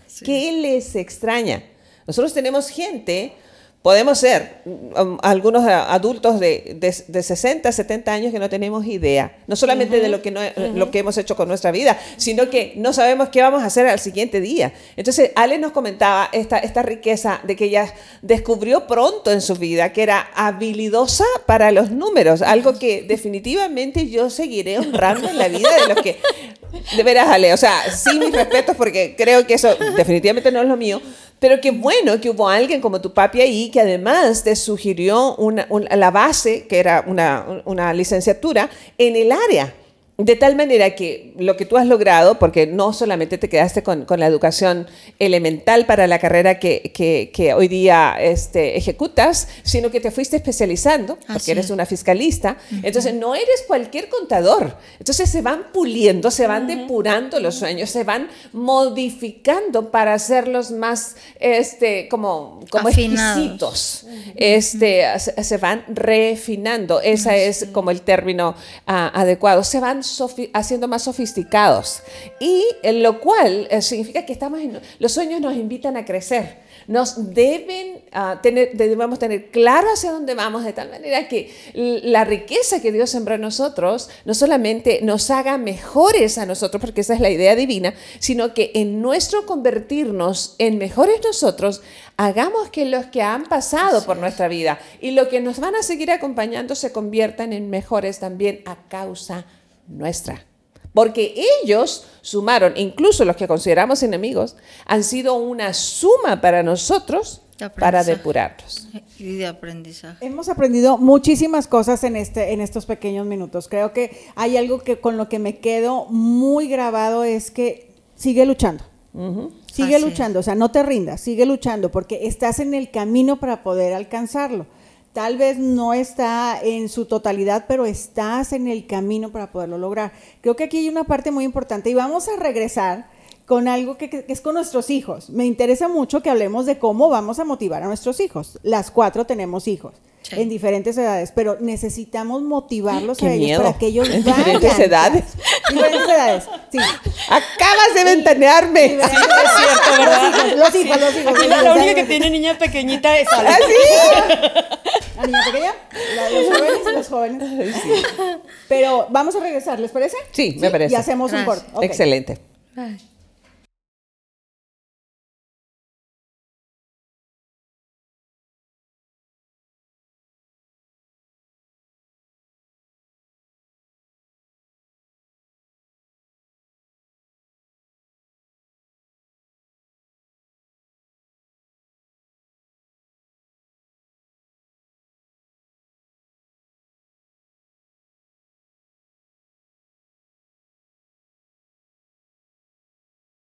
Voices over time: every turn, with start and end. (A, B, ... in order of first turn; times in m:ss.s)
0:00.1-0:00.4 A
0:00.2-1:40.4 B
0:09.7-0:10.9 C
0:51.3-0:51.7 A
0:52.7-0:53.1 A
0:56.4-0:56.9 C
1:02.8-1:03.7 A
1:33.8-1:34.4 A
1:40.9-1:48.8 B
1:47.6-1:48.3 A
1:48.9-1:50.2 A
1:50.2-1:58.9 D
1:59.1-1:59.6 B
1:59.7-2:27.0 D
1:59.8-2:00.3 A
2:23.0-2:25.3 B
2:25.6-2:26.1 C
2:27.2-2:30.3 B
2:28.0-2:32.4 D
2:29.0-2:35.1 C
2:33.4-2:34.4 B
2:33.5-2:34.4 D
2:35.1-2:38.1 D
2:36.2-2:36.9 B
2:37.4-2:38.1 B
2:38.7-2:42.0 D
2:40.3-2:41.1 B
2:41.3-2:41.7 A
2:41.8-2:42.4 B
2:42.8-2:43.0 A